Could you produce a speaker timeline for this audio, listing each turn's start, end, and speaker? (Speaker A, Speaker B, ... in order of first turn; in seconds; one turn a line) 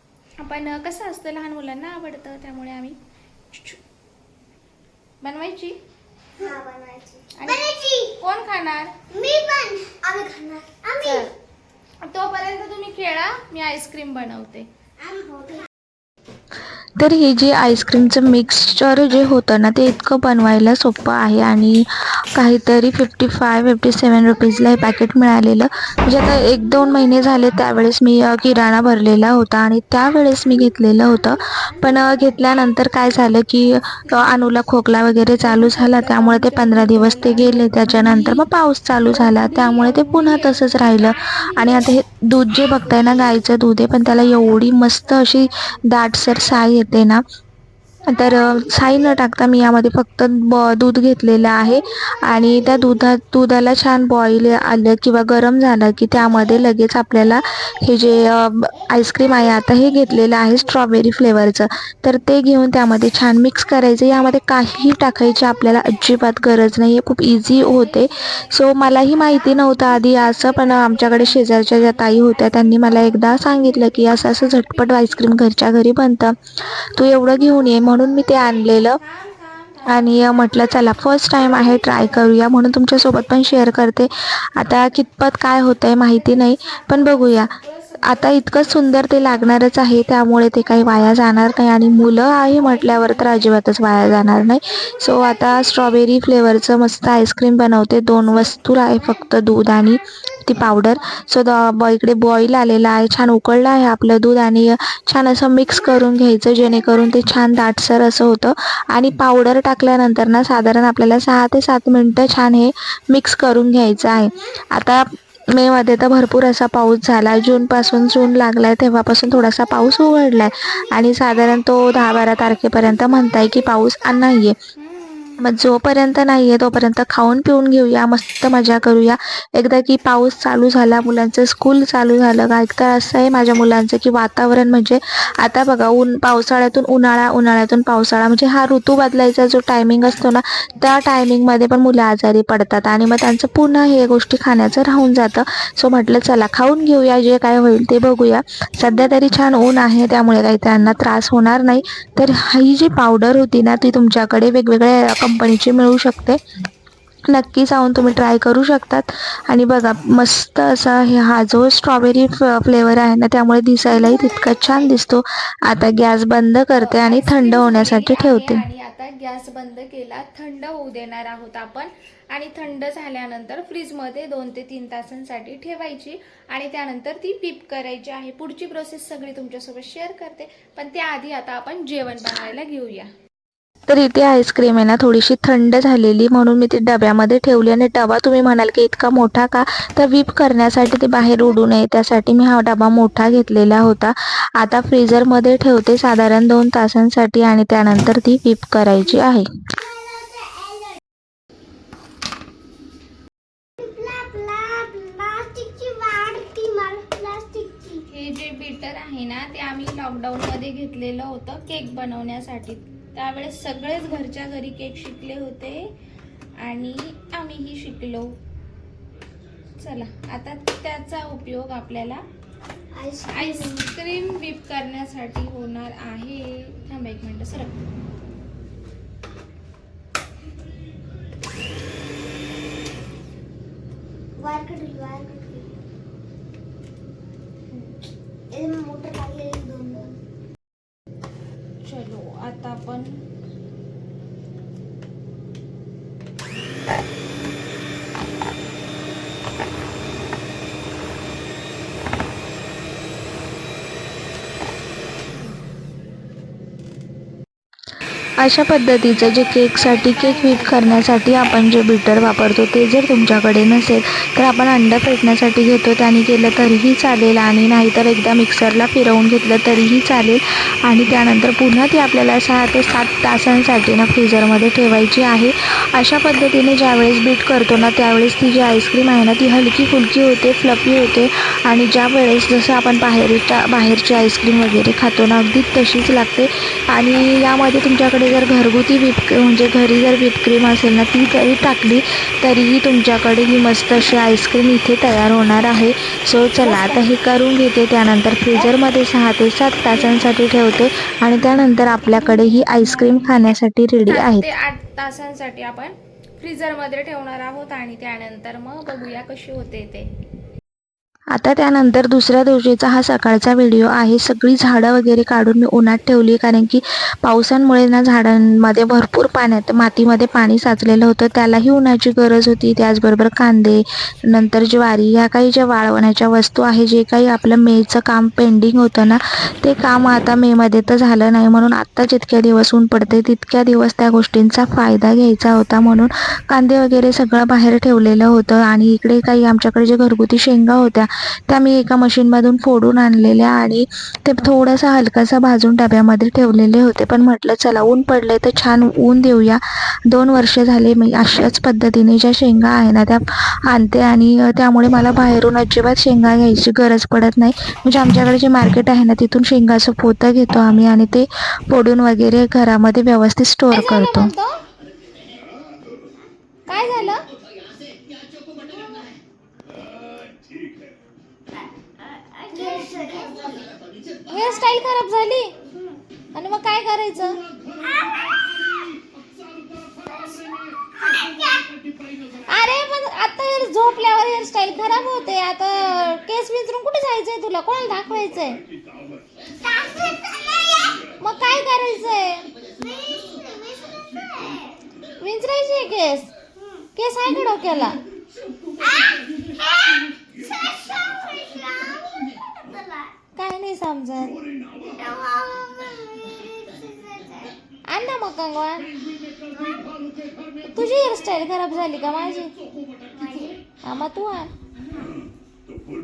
Speaker A: 0.4-3.0
Speaker A: 3.5-3.8
Speaker A: 5.2-5.8
Speaker B: 6.4-8.2
Speaker A: 7.3-8.9
Speaker B: 9.1-11.3
Speaker A: 11.0-11.3
Speaker A: 12.0-14.7
Speaker B: 15.0-15.7
Speaker C: 17.0-47.2
Speaker B: 31.6-32.4
Speaker A: 35.4-38.5
Speaker A: 39.0-41.9
Speaker A: 44.3-45.8
Speaker A: 48.0-48.8
Speaker C: 48.1-79.0
Speaker B: 58.9-59.4
Speaker A: 67.4-75.3
Speaker A: 77.4-82.4
Speaker C: 79.9-124.6
Speaker A: 86.0-89.7
Speaker A: 92.5-93.5
Speaker B: 99.0-99.4
Speaker B: 100.1-100.9
Speaker B: 114.1-114.4
Speaker A: 124.8-125.5
Speaker C: 125.4-156.4
Speaker C: 157.3-168.6
Speaker A: 166.8-183.1
Speaker C: 183.9-199.5
Speaker B: 199.8-201.0
Speaker B: 203.8-208.0
Speaker A: 208.1-215.9
Speaker A: 216.6-218.3
Speaker A: 219.8-222.2
Speaker B: 222.9-223.9
Speaker A: 223.3-227.7
Speaker B: 234.4-235.7
Speaker A: 237.7-238.0
Speaker B: 238.5-240.2
Speaker A: 241.8-243.2
Speaker C: 258.4-304.5
Speaker A: 259.0-261.3
Speaker A: 302.0-303.4
Speaker A: 304.1-310.1
Speaker C: 311.3-364.3
Speaker A: 363.7-364.6
Speaker A: 366.7-367.3
Speaker B: 368.7-369.2
Speaker B: 372.4-373.8
Speaker A: 374.3-375.5
Speaker A: 376.3-377.4
Speaker B: 377.8-378.7
Speaker B: 380.1-381.7
Speaker A: 382.5-388.6
Speaker B: 389.4-391.2
Speaker A: 391.2-392.5
Speaker B: 392.6-394.8
Speaker A: 395.2-396.3
Speaker A: 397.0-398.0
Speaker B: 398.8-403.1
Speaker A: 403.4-404.4
Speaker B: 404.9-407.6
Speaker A: 407.9-408.9
Speaker B: 409.5-410.0
Speaker A: 410.7-412.5
Speaker B: 413.1-413.6
Speaker A: 413.8-414.5